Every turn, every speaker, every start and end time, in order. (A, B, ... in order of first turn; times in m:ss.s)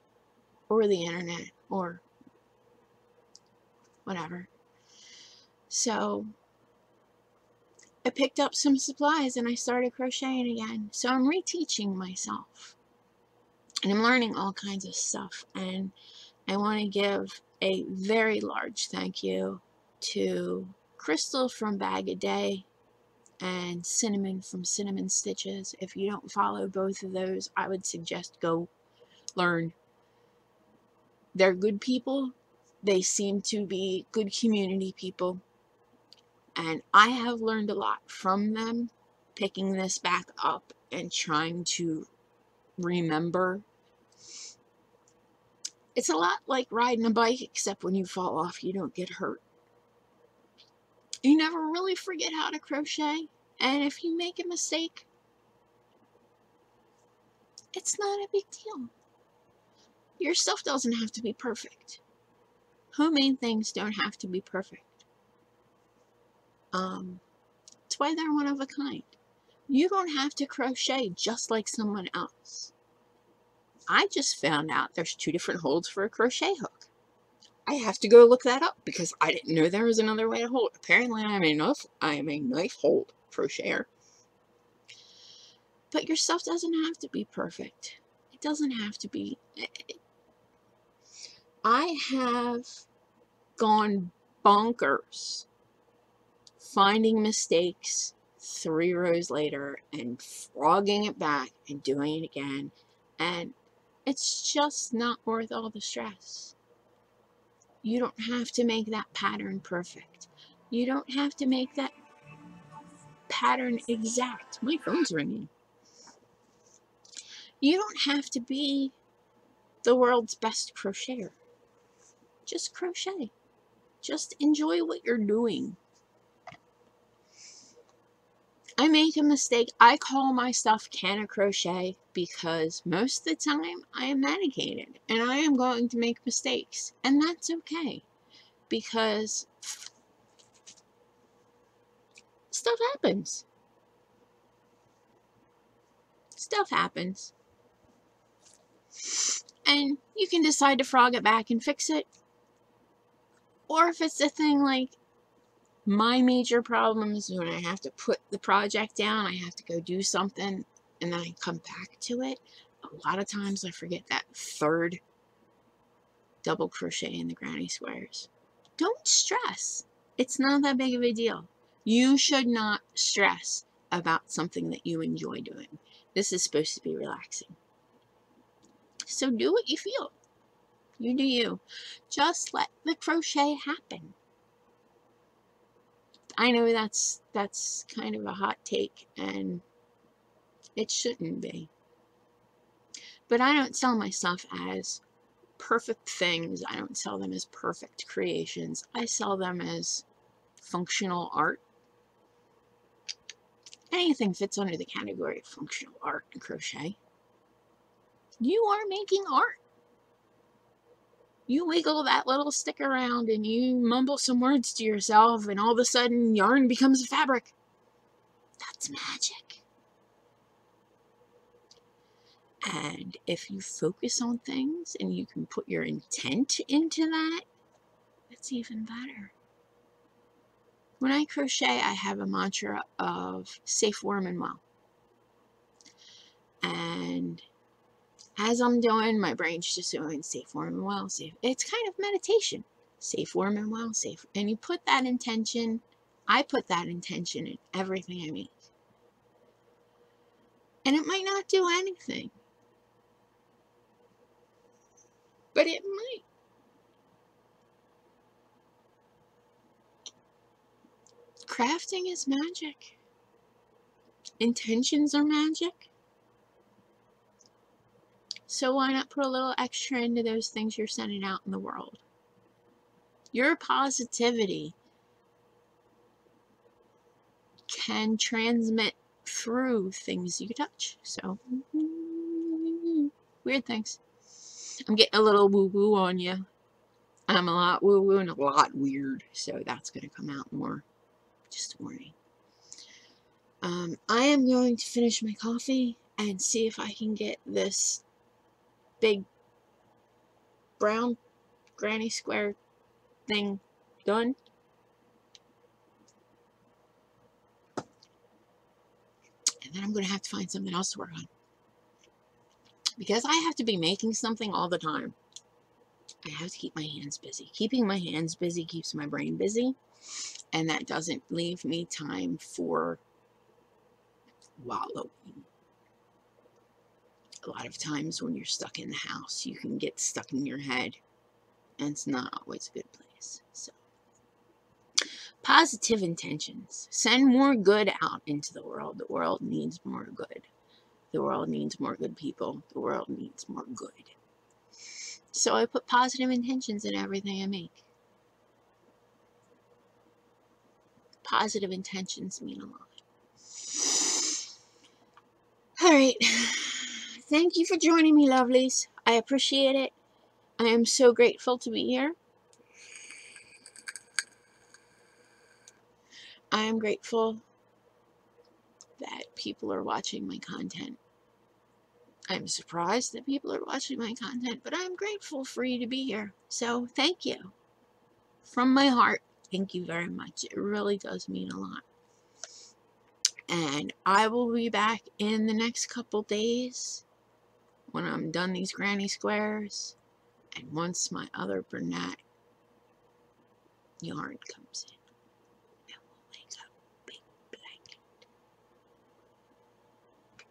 0:00.7-0:02.0 A
0:04.1-0:04.5 A
0:05.7-0:06.3 A
0:08.0-0:12.8 A
0:13.8-0:16.0 A
0:16.5-0:22.7 A
0:23.4-0:28.7 A
0:29.4-0:29.8 A
0:31.4-0:35.4 A
0:36.6-0:42.1 A
0:42.8-0:43.6 A
0:46.0-0:49.4 A
0:51.2-0:55.1 A
0:57.8-0:58.9 A
1:00.2-1:02.0 A
1:02.9-1:05.0 A
1:06.7-1:07.2 A
1:07.9-1:09.1 A
1:09.7-1:12.7 A
1:13.9-1:16.9 A
1:17.7-1:23.9 A
1:25.9-1:30.0 A
1:31.6-1:32.9 A
1:33.6-1:35.5 A
1:36.6-1:43.6 A
1:44.1-1:46.6 A
1:47.8-1:52.0 A
1:53.3-1:55.5 A
1:57.6-1:59.0 A
1:59.8-2:01.4 A
2:02.5-2:03.3 A
2:04.0-2:05.8 A
2:08.8-2:18.0 A
2:18.7-2:19.9 A
2:22.5-2:23.5 A
2:26.4-2:27.3 A
2:29.0-2:32.1 A
2:33.7-2:35.0 A
2:35.8-2:45.0 A
2:46.4-2:57.6 A
2:59.1-3:00.1 A
3:01.0-3:04.2 A
3:06.4-3:09.6 A
3:10.8-3:11.7 A
3:13.3-3:15.0 A
3:15.6-3:20.0 A
3:20.6-3:21.6 A
3:23.9-3:27.0 A
3:28.4-3:29.6 A
3:31.5-3:37.5 A
3:38.6-3:39.6 A
3:42.6-3:47.4 A
3:48.3-3:49.3 A
3:51.0-3:54.6 A
3:56.6-3:57.5 A
3:58.4-4:08.6 A
4:10.8-4:12.4 A
4:15.5-4:16.2 A
4:21.5-4:23.0 A
4:24.4-4:25.9 A
4:28.5-4:32.0 A
4:33.3-4:34.8 A
4:37.7-4:44.0 A
4:44.8-4:46.4 A
4:47.3-4:50.8 A
4:51.5-4:52.2 A
4:53.6-4:58.0 A
4:59.0-4:59.3 A
5:00.8-5:01.2 A
5:01.8-5:02.6 A
5:03.3-5:04.4 A
5:09.6-5:11.3 A
5:13.0-5:15.2 A
5:16.2-5:19.8 A
5:20.5-5:23.0 A
5:24.6-5:25.5 A
5:27.4-5:31.0 A
5:31.8-5:33.8 A
5:35.4-5:40.5 A
5:41.1-5:44.1 A
5:45.3-5:47.8 A
5:51.2-5:52.9 A
5:53.7-5:54.4 A
5:55.8-6:00.0 A
6:00.6-6:02.2 A
6:06.5-6:07.4 A
6:09.0-6:11.0 A
6:12.3-6:17.5 A
6:18.4-6:21.8 A
6:23.5-6:27.0 A
6:27.9-6:30.0 A
6:30.6-6:32.2 A
6:34.0-6:35.0 A
6:35.9-6:38.2 A